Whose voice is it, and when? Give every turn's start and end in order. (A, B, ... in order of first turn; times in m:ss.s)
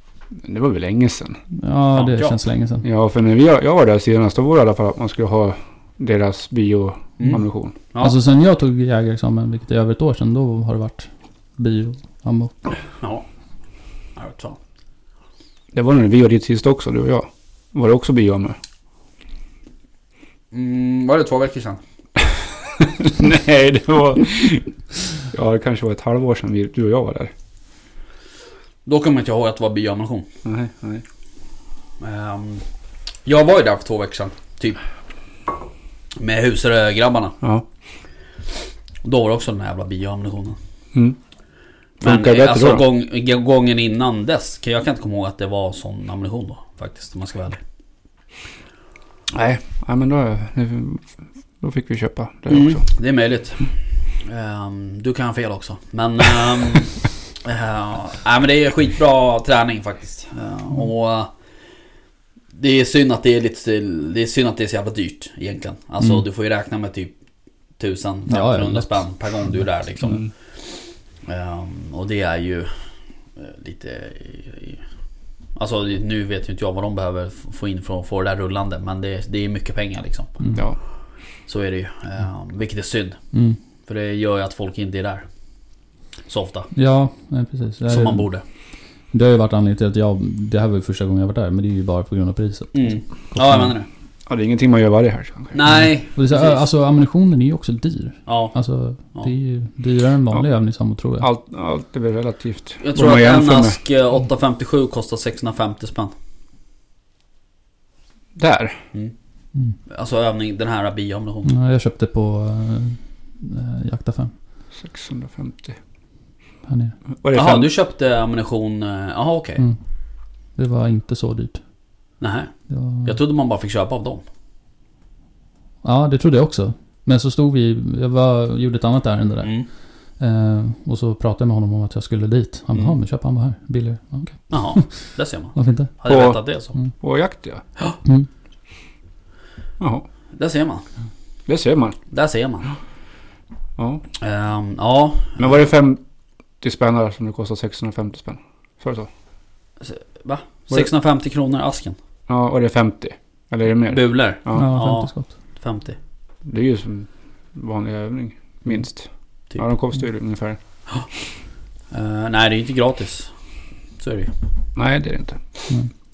0:00.4-0:01.4 A
0:01.5-0:02.8 B
0:01.9-0:02.4 C
0:02.8-0:07.7 A
0:07.2-0:08.2 C
0:08.0-0:12.8 B
0:13.0-0:14.6 C
0:15.7-0:18.6 A
0:20.5-0:21.8 C
0:22.8-0:27.3 A
0:28.8-0:30.3 C
0:30.4-0:31.0 A
0:32.0-0:32.6 C
0:33.2-0:34.8 C
0:36.2-0:37.4 C
0:39.0-0:40.6 C
0:40.9-0:41.2 A
0:42.0-0:42.8 A
0:42.0-0:47.6 C
0:49.3-0:52.8 A
0:52.5-1:01.3 C
1:02.5-1:07.1 C
1:06.0-1:06.2 B
1:07.7-1:14.8 C
1:08.3-1:10.2 B
1:15.5-1:25.3 C
1:23.3-1:23.6 B
1:26.2-1:26.8 C
1:26.7-1:33.7 B
1:27.9-1:28.4 C
1:32.7-1:33.9 C
1:34.2-1:35.8 A
1:35.5-1:36.6 C
1:35.6-1:41.3 B
1:38.2-1:39.3 C
1:40.3-1:43.8 A
1:42.8-1:46.1 C
1:48.3-1:48.8 A
1:49.7-1:51.6 C
1:51.4-1:54.3 B
1:54.7-1:55.8 A
1:56.6-1:57.0 B
1:57.2-1:57.7 A
1:57.3-1:59.6 C
1:59.6-2:02.0 B
2:02.2-2:04.2 C
2:02.7-2:03.2 B
2:05.8-2:15.9 B
2:09.4-2:09.7 C
2:14.5-2:17.0 C
2:16.1-2:17.6 A
2:19.8-2:20.0 A
2:20.3-2:20.8 C
2:21.5-2:22.0 A
2:22.1-2:22.8 C
2:23.8-2:24.0 A
2:24.2-2:25.5 C
2:25.4-2:29.1 A
2:29.8-2:32.0 C
2:32.3-2:34.7 A
2:33.9-2:36.0 C
2:34.5-2:35.4 B
2:36.4-2:40.9 A
2:40.9-2:44.3 C
2:44.7-2:46.0 A